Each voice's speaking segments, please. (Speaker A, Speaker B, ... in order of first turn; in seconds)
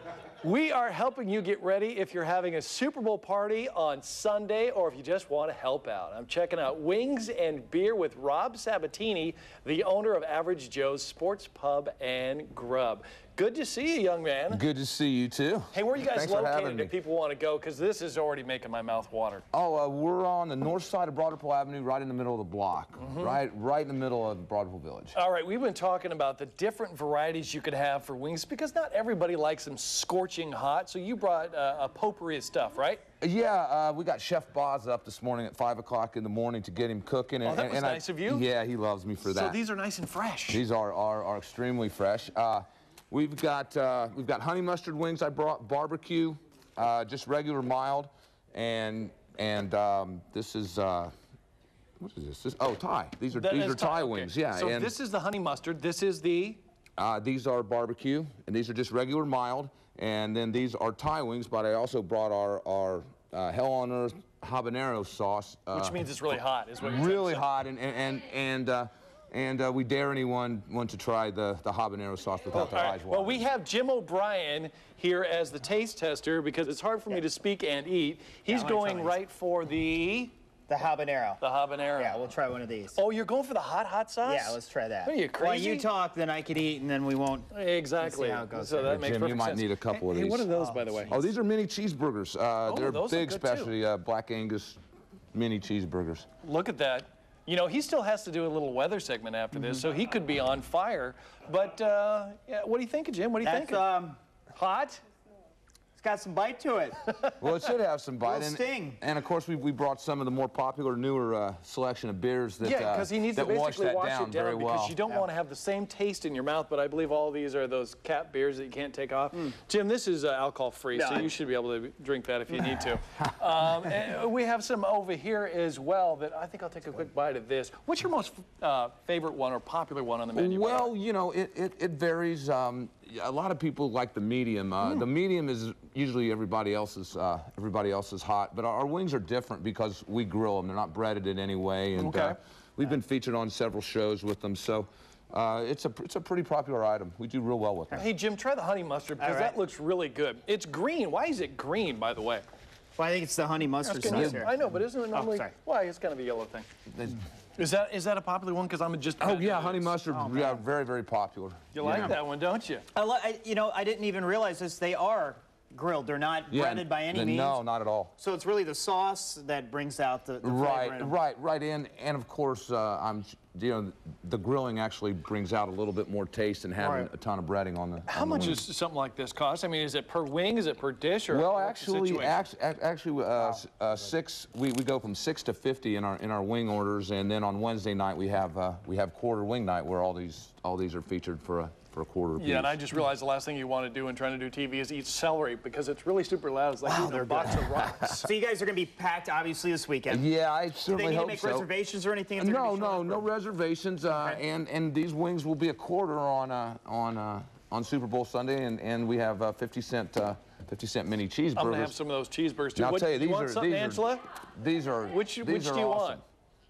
Speaker A: 0.4-14.6, 15.7-19.4, 23.0-23.4, 25.1-33.0, 37.4-38.5, 39.2-40.6, 53.3-56.6, 65.7-67.5, 72.5-80.3, 81.4-82.2, 82.9-85.9, 87.5-91.3, 92.6-93.7, 96.4-105.0, 112.6-130.9, 142.0-142.4, 147.9-152.4, 153.8-156.7, 157.6-159.9, 161.7-162.8, 178.1-182.4, 192.4-198.3, 211.6-214.2, 215.1-216.2
Speaker B: 14.5-16.9, 19.5-25.1, 33.2-39.6, 40.5-51.1, 52.0-54.9, 57.0-73.4, 88.8-90.5, 91.1-94.8, 95.3-96.3, 107.4-115.0, 130.3-148.0, 154.1-154.4, 156.9-157.2, 159.2-162.2, 166.5-168.1, 170.4-178.6, 181.3-192.8, 200.1-201.7, 202.3-211.9, 212.8-216.2
Speaker C: 78.5-79.2, 80.7-81.4, 82.0-83.0, 84.2-89.0, 90.6-90.8, 103.4-104.2, 106.0-107.3, 108.2-109.0, 120.9-121.3, 149.2-149.6, 152.9-154.6, 155.1-155.5, 160.1-160.6, 162.9-167.6, 168.2-171.1, 176.8-177.1, 196.8-200.2, 200.9-203.3, 204.1-204.4